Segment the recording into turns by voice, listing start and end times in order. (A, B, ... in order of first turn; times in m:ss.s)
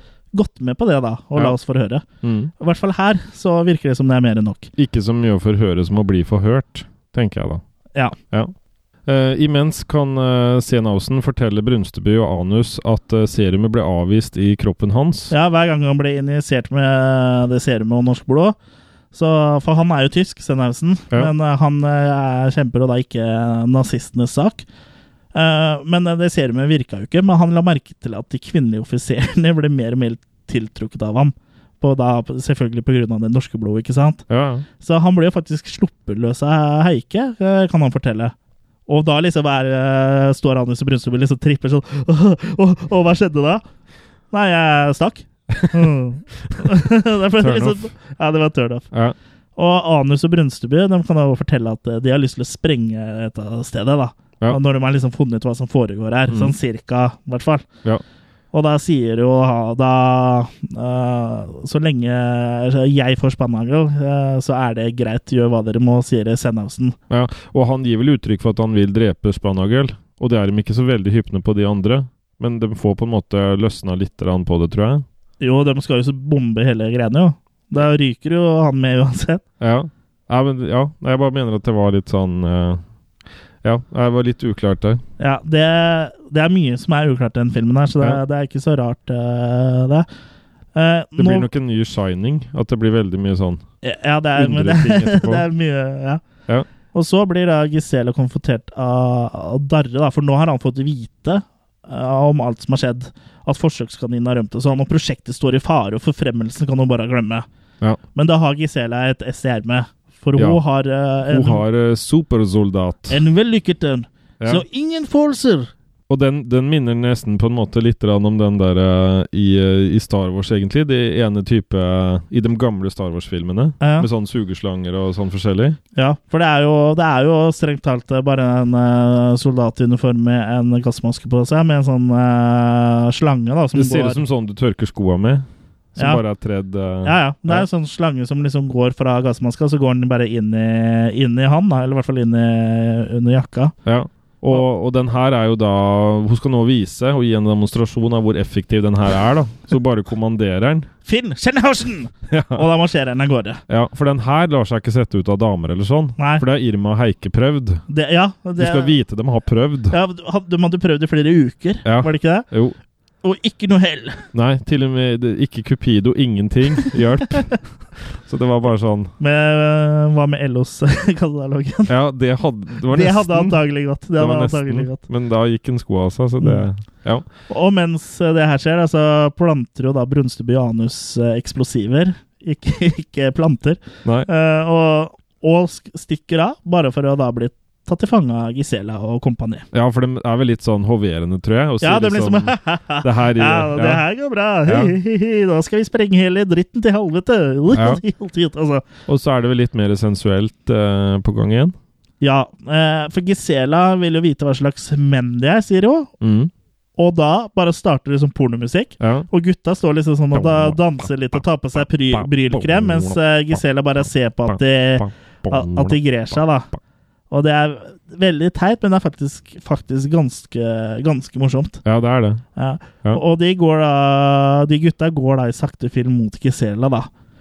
0:00.3-0:02.0 A
0:02.2-0:02.5 B
0:02.6-0:04.7 A
0:04.8-0:07.6 B
0:09.0-0:15.3 B
0:15.3-0:18.6 A
0:19.1-0:24.6 A
0:25.3-0:34.2 A
0:34.3-0:34.7 B
0:34.8-0:38.3 A
0:38.9-0:43.6 A
0:44.3-0:48.9 A
0:45.5-0:45.9 B
0:47.4-0:47.9 B
0:49.6-0:57.7 A
0:56.3-0:56.5 B
0:58.5-1:07.0 A
1:07.1-1:15.0 B
1:15.4-1:19.4 A
1:19.6-1:22.8 B
1:23.6-1:25.0 B
1:25.2-1:30.1 A
1:30.8-1:31.5 A
1:31.2-1:33.6 B
1:33.8-1:36.2 A
1:34.4-1:35.5 B
1:36.9-1:47.5 A
1:48.2-1:51.6 A
1:50.4-1:50.6 B
1:51.3-1:53.2 B
1:53.1-1:55.7 A
1:56.1-2:05.8 B
2:03.8-2:04.1 A
2:06.0-2:14.2 A
2:13.8-2:17.7 B
2:17.0-2:23.7 A
2:23.8-2:30.9 B
2:31.1-2:33.6 A
2:32.3-2:32.7 B
2:33.7-2:37.8 B
2:36.2-2:36.4 A
2:37.9-2:39.0 A
2:38.6-2:40.0 B
2:39.9-2:42.5 A
2:41.8-2:42.8 B
2:43.2-2:44.2 A
2:44.3-2:49.1 B
2:49.2-2:51.9 A
2:51.9-2:57.2 B
2:52.9-2:55.0 A
2:57.5-3:09.7 A
3:04.0-3:04.3 B
3:09.7-3:14.0 B
3:11.8-3:18.9 A
3:14.7-3:15.0 B
3:17.7-3:18.0 B
3:19.1-3:21.8 B
3:22.2-3:26.1 A
3:26.2-3:26.5 B
3:27.0-3:36.7 A
3:29.0-3:29.3 B
3:30.3-3:36.8 B
3:37.3-3:41.8 A
3:41.8-3:42.4 B
3:42.6-3:47.1 A